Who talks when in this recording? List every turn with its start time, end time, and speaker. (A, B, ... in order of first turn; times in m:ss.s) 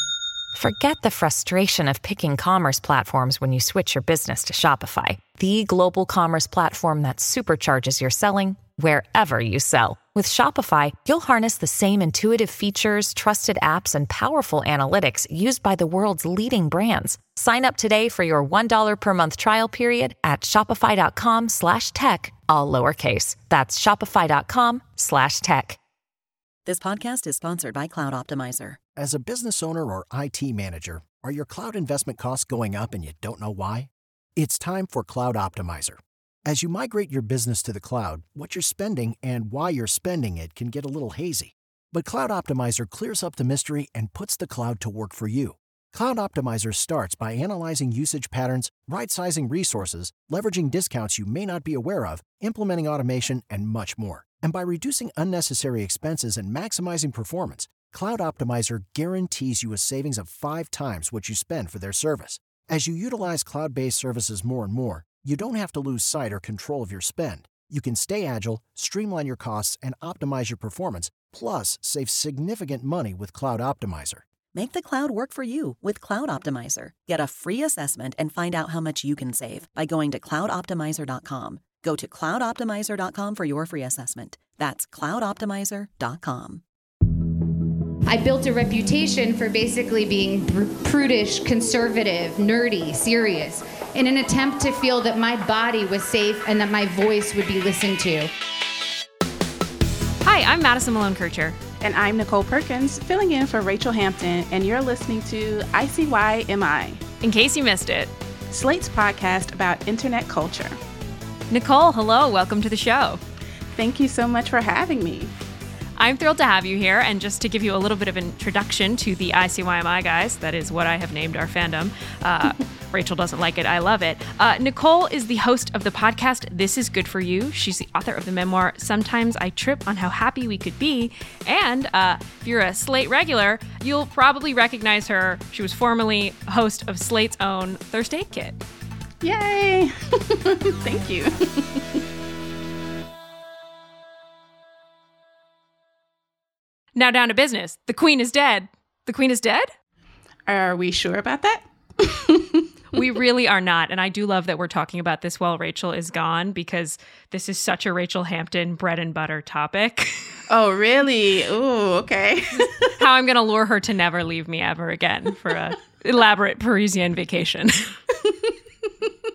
0:00.5-0:25.8 A
0:26.6-0:28.8 B
0:29.0-1:14.2 C
1:14.5-1:26.6 B
1:28.1-1:38.3 D
1:40.2-1:41.6 E
1:41.8-1:47.0 F
1:47.2-1:48.1 E
1:48.5-1:50.8 F
1:51.5-1:53.2 E
1:53.7-1:55.3 F
1:56.0-2:18.6 E
2:19.2-2:22.0 F
2:26.9-2:29.7 E
2:30.5-2:33.0 F
2:32.9-2:40.2 E
2:40.5-2:42.9 F
2:43.0-2:47.9 E
2:48.2-2:48.5 F